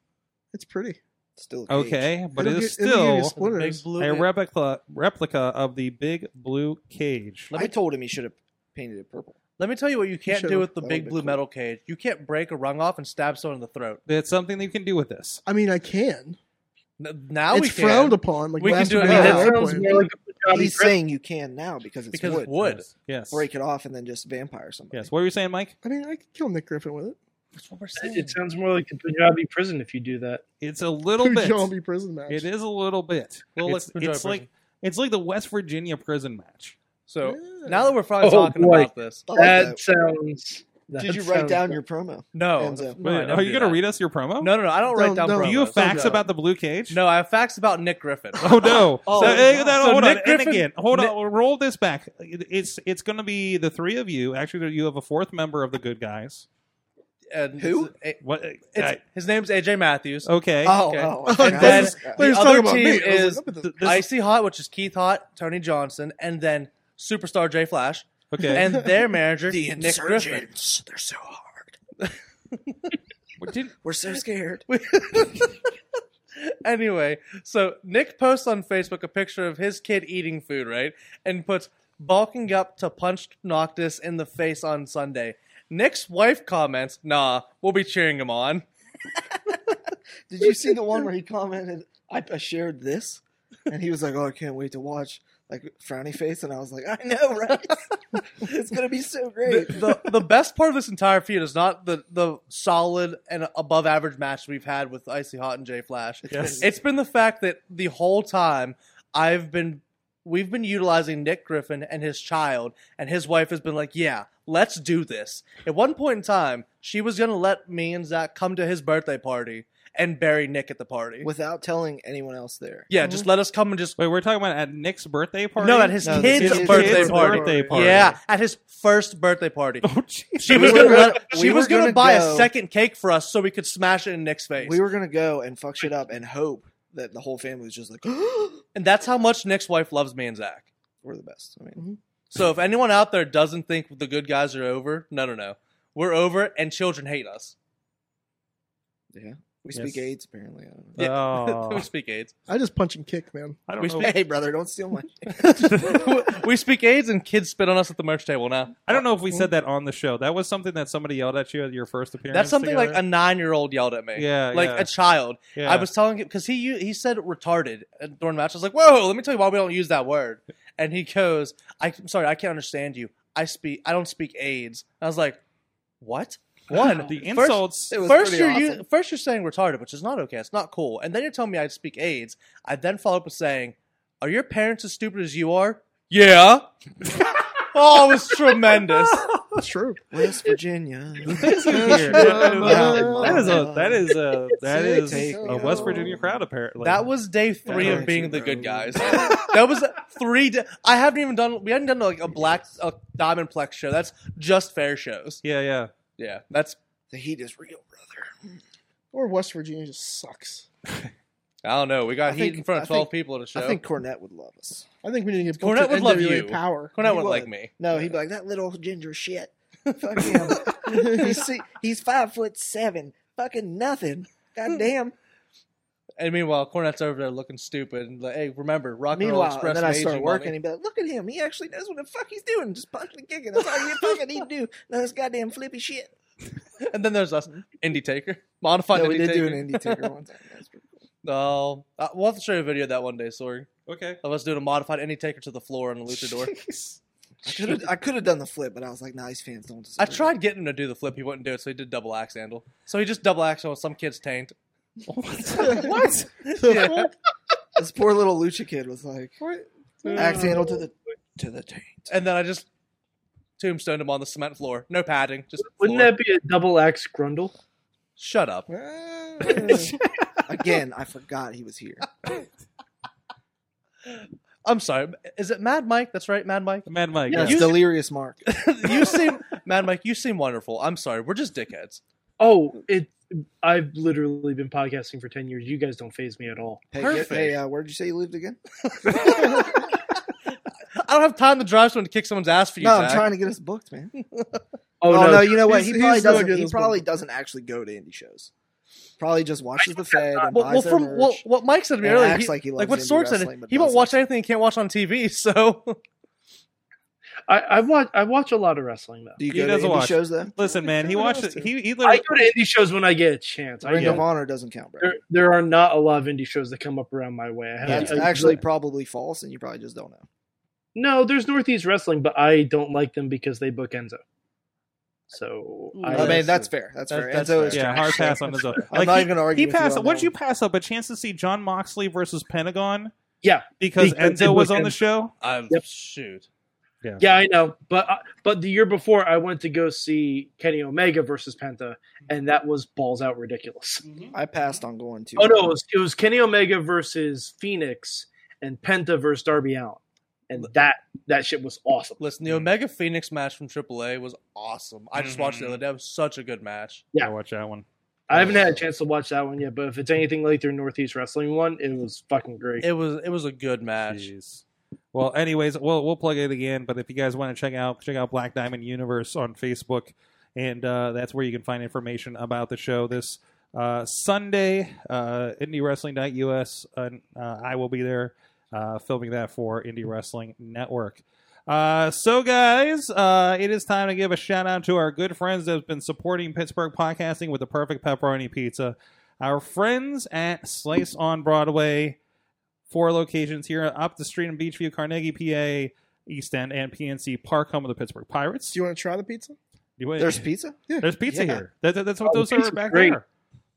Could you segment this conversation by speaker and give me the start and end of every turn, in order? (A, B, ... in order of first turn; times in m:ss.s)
0:00.5-0:01.0 A
0:01.4-0:02.2 B
0:01.7-0:03.3 C
0:02.3-0:03.8 A
0:03.4-0:04.3 D
0:04.0-0:07.5 C
0:07.5-0:09.4 B
0:09.6-0:14.0 D
0:10.3-0:10.7 A
0:10.7-0:11.4 B
0:14.1-0:15.4 C
0:15.4-0:16.4 A
0:17.0-0:19.5 D
0:17.5-0:20.1 A
0:19.0-0:21.0 E
0:19.1-0:19.5 B
0:20.5-0:22.8 B
0:22.1-0:22.9 D
0:22.6-0:23.5 C
0:23.3-0:25.1 B
0:24.9-0:25.7 C
0:25.8-0:27.2 A
0:27.5-0:28.4 D
0:28.0-0:30.4 E
0:30.6-0:31.7 C
0:31.2-0:32.5 A
0:32.3-0:36.7 C
0:33.6-0:34.4 D
0:37.1-0:39.3 D
0:37.2-0:37.9 A
0:38.2-0:41.8 E
0:39.3-0:39.8 B
0:41.0-0:43.0 B
0:42.3-0:43.8 D
0:43.0-0:44.5 C
0:44.4-0:46.2 D
0:44.9-0:46.2 A
0:45.4-0:47.0 C
0:46.9-0:51.1 D
0:48.4-0:56.4 C
0:49.0-0:49.9 B
0:57.3-0:58.2 D
0:57.6-0:57.9 B
0:58.2-0:59.0 C
0:58.7-1:00.3 D
1:00.2-1:00.8 C
1:00.6-1:02.2 B
1:00.9-1:10.5 D
1:01.2-1:03.9 A
1:03.6-1:04.0 C
1:08.3-1:08.7 C
1:09.5-1:11.7 B
1:13.4-1:13.7 C
1:13.8-1:14.6 B
1:14.7-1:15.6 D
1:16.4-1:28.6 D
1:30.3-1:40.2 B
1:39.4-2:01.3 D
1:46.2-1:46.7 B
1:46.3-1:46.6 C
2:01.2-2:02.9 B
2:02.9-2:04.0 D
2:03.0-2:03.3 A
2:04.0-2:08.2 C
2:05.6-2:09.9 D
2:06.0-2:07.7 B
2:06.2-2:08.0 A
2:09.8-2:11.1 C
2:10.4-2:14.8 D
2:10.5-2:12.5 B
2:14.6-2:18.6 B
2:18.7-2:20.7 D
2:21.0-2:21.8 B
2:22.3-2:27.5 D
2:29.1-2:31.1 B
2:29.7-2:30.1 C
2:31.0-2:32.3 D
2:31.0-2:31.8 C
2:32.5-2:33.6 A
2:33.7-2:34.1 C
2:33.8-2:34.2 D
2:33.8-2:36.0 B
2:35.3-2:39.0 D
2:38.9-2:43.0 C
2:42.3-2:55.4 D
2:44.1-2:44.9 C
2:45.5-2:45.9 C
2:56.0-3:06.7 D
2:56.8-2:58.0 C
2:57.9-2:58.8 B
3:07.7-3:09.3 D
3:09.5-3:10.0 A
3:10.1-3:16.4 B
3:11.2-3:17.1 C
3:11.7-3:13.6 A
3:12.2-3:12.6 D
3:15.0-3:16.2 A
3:16.8-3:25.4 D
3:17.7-3:18.4 C
3:17.7-3:19.4 B
3:25.4-3:25.9 C
3:26.2-3:26.8 D
3:27.1-3:28.6 B
3:29.1-3:30.6 A
3:31.6-3:33.8 D
3:32.2-3:34.9 B
3:35.0-3:36.9 A
3:35.5-3:37.8 D
3:37.0-3:45.1 B
3:39.9-3:41.3 D
3:40.9-3:41.2 A
3:46.2-3:50.5 D
3:49.1-3:56.1 B
3:56.8-4:00.1 D
3:58.9-4:00.8 B
4:01.2-4:03.7 D
4:03.9-4:04.2 C
4:04.2-4:06.5 D
4:06.2-4:07.0 C
4:07.4-4:10.4 B
4:10.0-4:14.5 D
4:15.1-4:16.3 C
4:15.6-4:17.1 A
4:15.7-4:17.1 D
4:17.8-4:19.4 B
4:19.4-4:20.8 A
4:20.1-4:22.1 B
4:22.1-4:22.7 D
4:23.6-4:26.2 D
4:25.7-4:27.5 E
4:28.2-4:28.7 D
4:28.7-4:29.9 A
4:30.5-4:32.1 B
4:34.1-4:37.8 D
4:36.8-4:37.8 C
4:37.3-4:38.4 B
4:38.5-4:42.0 D
4:42.4-4:46.8 E
4:46.9-4:48.6 B
4:47.0-4:47.6 D
4:49.0-4:50.0 D
4:49.1-4:49.6 B
4:51.0-4:53.3 D
4:52.8-4:54.1 B
4:54.3-4:54.6 D
4:55.0-4:55.7 E
4:55.0-4:58.5 B
4:55.5-4:57.0 A
4:59.2-5:01.4 B
4:59.8-5:00.5 E
5:00.5-5:06.0 D
5:02.0-5:04.1 B
5:07.5-5:09.4 E
5:09.4-5:10.5 B
5:09.5-5:12.3 C
5:10.6-5:11.7 A
5:12.0-5:14.3 E
5:13.8-5:15.2 B
5:14.0-5:14.2 C
5:15.0-5:18.6 E
5:17.8-5:18.6 C
5:17.8-5:20.2 B
5:20.9-5:24.2 E
5:25.3-5:26.4 E
5:25.9-5:28.4 D
5:26.1-5:30.3 B
5:27.7-5:33.1 C
5:33.4-5:35.0 E
5:33.8-5:35.3 C
5:35.4-5:36.4 D
5:37.2-5:44.0 E
5:44.0-5:44.3 C
5:44.3-5:45.8 B
5:45.4-5:52.2 E
5:52.2-5:57.0 D
5:55.1-5:55.8 C
5:57.2-5:58.8 C
5:58.3-6:02.8 E
6:02.8-6:04.3 D
6:04.0-6:32.2 C
6:32.9-6:38.8 C
6:38.7-6:39.6 A
6:40.0-6:40.5 C
6:40.2-6:41.6 B
6:41.0-6:43.2 C
6:42.2-6:43.2 E